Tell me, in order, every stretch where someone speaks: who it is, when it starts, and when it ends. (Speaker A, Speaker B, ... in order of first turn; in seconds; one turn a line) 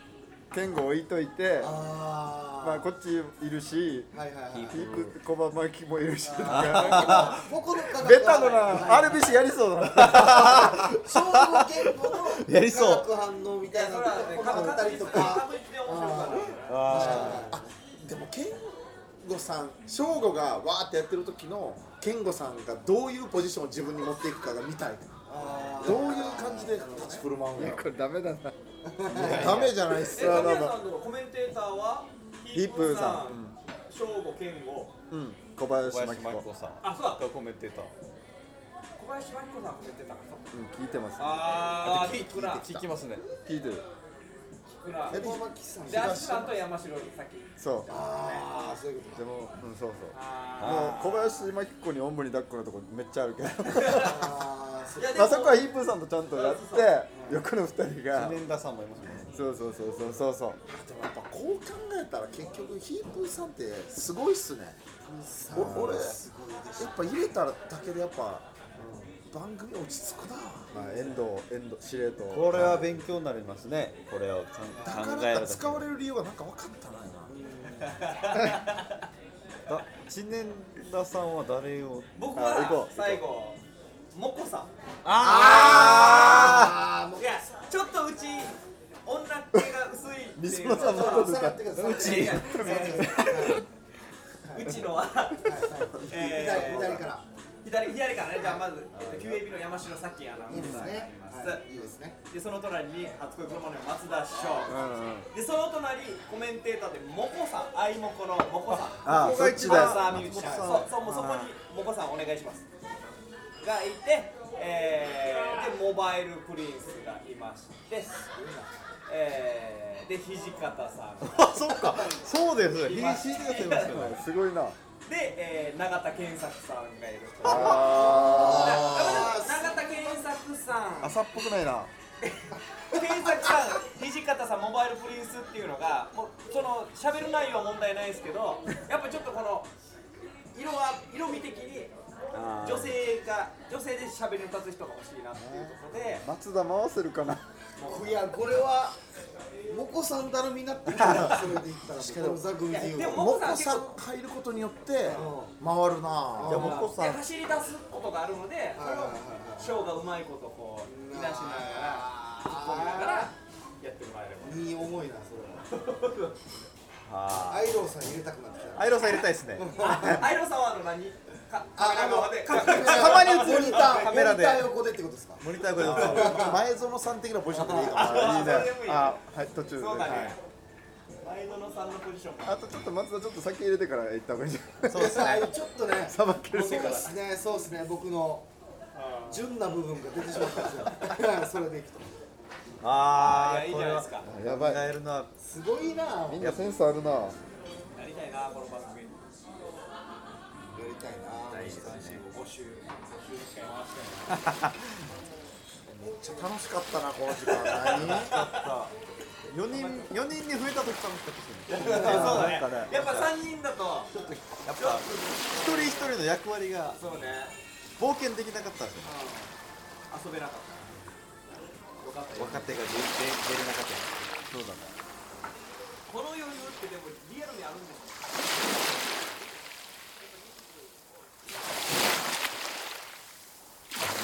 Speaker A: 0.5-1.7
Speaker B: 1.6-2.9
Speaker A: 2.6-4.1
Speaker B: 4.1-4.8
Speaker C: 4.5-5.1
Speaker A: 4.7-7.3
Speaker D: 6.2-7.5
Speaker C: 6.5-7.4
Speaker B: 6.5-9.4
Speaker A: 7.9-10.9
Speaker D: 8.1-9.3
Speaker C: 9.9-11.3
Speaker B: 10.0-17.6
Speaker C: 11.8-13.1
Speaker D: 13.7-17.4
Speaker C: 16.7-17.5
Speaker E: 17.1-25.1
Speaker B: 25.3-27.2
Speaker D: 25.4-25.8
Speaker E: 25.8-27.8
Speaker A: 27.6-28.5
Speaker B: 28.8-29.7
Speaker C: 29.1-29.8
Speaker E: 29.3-30.5
Speaker D: 30.1-34.9
Speaker A: 30.1-30.8
Speaker A: 32.5-33.5
Speaker A: 35.1-36.5
Speaker C: 35.8-37.9
Speaker D: 36.8-37.3
Speaker D: 39.0-40.5
Speaker A: 40.5-41.5
Speaker D: 41.2-42.6
Speaker C: 41.8-43.2
Speaker E: 42.1-42.9
Speaker A: 43.4-43.9
Speaker D: 44.7-45.3
Speaker B: 45.1-46.1
Speaker E: 45.1-46.6
Speaker D: 45.9-48.8
Speaker A: 47.6-47.9
Speaker B: 47.9-49.3
Speaker A: 49.1-54.3
Speaker D: 50.1-51.1
Speaker C: 50.6-51.2
Speaker D: 53.7-54.1
Speaker B: 54.0-55.1
Speaker D: 55.0-55.6
Speaker A: 55.0-58.4
Speaker D: 56.3-56.9
Speaker B: 57.1-57.4
Speaker C: 58.1-59.3
Speaker A: 59.3-60.6
Speaker E: 60.7-64.8
Speaker B: 65.0-67.2
Speaker E: 65.5-66.2
Speaker A: 65.5-66.1
Speaker E: 66.8-68.5
Speaker B: 68.7-69.2
Speaker E: 69.3-70.7
Speaker A: 70.7-73.0
Speaker B: 70.7-71.1
Speaker C: 72.3-75.8
Speaker B: 74.7-75.0
Speaker E: 74.8-77.3
Speaker B: 77.3-78.0
Speaker D: 77.8-79.0
Speaker C: 79.7-82.2
Speaker D: 82.2-83.6
Speaker A: 82.3-83.2
Speaker D: 84.1-84.7
Speaker C: 85.0-86.8
Speaker B: 85.2-87.4
Speaker D: 85.4-86.6
Speaker D: 87.2-91.3
Speaker A: 90.3-93.0
Speaker B: 90.8-93.6
Speaker C: 91.7-93.5
Speaker D: 91.9-93.6
Speaker B: 94.5-94.8
Speaker D: 94.5-97.0
Speaker B: 95.4-97.2
Speaker A: 95.8-97.0
Speaker D: 97.6-104.8
Speaker A: 99.0-99.4
Speaker B: 100.5-102.2
Speaker A: 100.5-100.9
Speaker B: 104.3-104.9
Speaker A: 104.7-105.3
Speaker D: 105.3-112.6
Speaker A: 109.0-111.0
Speaker C: 109.0-111.5
Speaker D: 113.6-118.2
Speaker B: 118.3-118.7
Speaker D: 119.1-122.1
Speaker C: 121.3-124.2
Speaker D: 122.8-124.1
Speaker A: 123.8-124.8
Speaker D: 125.0-131.2
Speaker A: 127.4-128.9
Speaker B: 127.5-130.2
Speaker C: 127.5-128.4
Speaker A: 131.0-131.9
Speaker D: 132.2-139.7
Speaker D: 140.5-141.9
Speaker C: 142.3-142.9
Speaker D: 142.6-146.2
Speaker A: 145.4-147.5
Speaker D: 147.8-148.1
Speaker B: 147.8-149.0
Speaker B: 149.7-153.3
Speaker E: 151.9-152.4
Speaker D: 152.7-154.0
Speaker E: 153.0-156.7
Speaker D: 155.0-155.3
Speaker B: 155.1-155.6
Speaker B: 156.4-156.9
Speaker C: 156.4-157.3
Speaker D: 156.4-164.7
Speaker B: 158.7-159.8
Speaker B: 160.8-163.3
Speaker B: 164.4-165.7
Speaker D: 165.7-166.5
Speaker C: 167.1-167.8
Speaker B: 167.3-169.0
Speaker C: 168.7-170.0
Speaker B: 169.6-170.3
Speaker D: 169.7-174.2
Speaker B: 171.8-176.6
Speaker C: 172.5-174.7
Speaker C: 175.4-176.6
Speaker E: 175.9-178.6
Speaker B: 177.5-178.2
Speaker D: 177.9-179.2
Speaker A: 177.9-180.3
Speaker D: 179.8-180.4
Speaker D: 181.2-182.8
Speaker A: 182.4-185.3
Speaker C: 184.9-185.5
Speaker B: 184.9-188.5
Speaker A: 186.1-187.1
Speaker D: 186.5-187.1
Speaker D: 188.9-189.5
Speaker B: 189.3-192.1
Speaker C: 192.8-195.3
Speaker D: 193.1-194.3
Speaker A: 194.2-194.9
Speaker B: 195.4-196.4
Speaker A: 196.3-197.4
Speaker D: 197.9-199.2
Speaker B: 200.7-202.4
Speaker C: 201.5-202.2
Speaker D: 202.2-204.4
Speaker C: 204.3-205.0
Speaker E: 205.8-208.4
Speaker D: 207.3-208.7
Speaker C: 207.8-208.9
Speaker C: 209.5-213.3
Speaker D: 209.7-210.1
Speaker D: 211.7-216.1
Speaker B: 211.8-212.6
Speaker A: 212.0-212.7
Speaker C: 214.1-217.0
Speaker D: 216.9-217.6
Speaker C: 218.0-219.1
Speaker D: 219.0-219.5
Speaker D: 220.1-221.0
Speaker D: 222.0-223.0
Speaker C: 222.3-224.3
Speaker A: 224.5-224.9
Speaker D: 226.1-228.4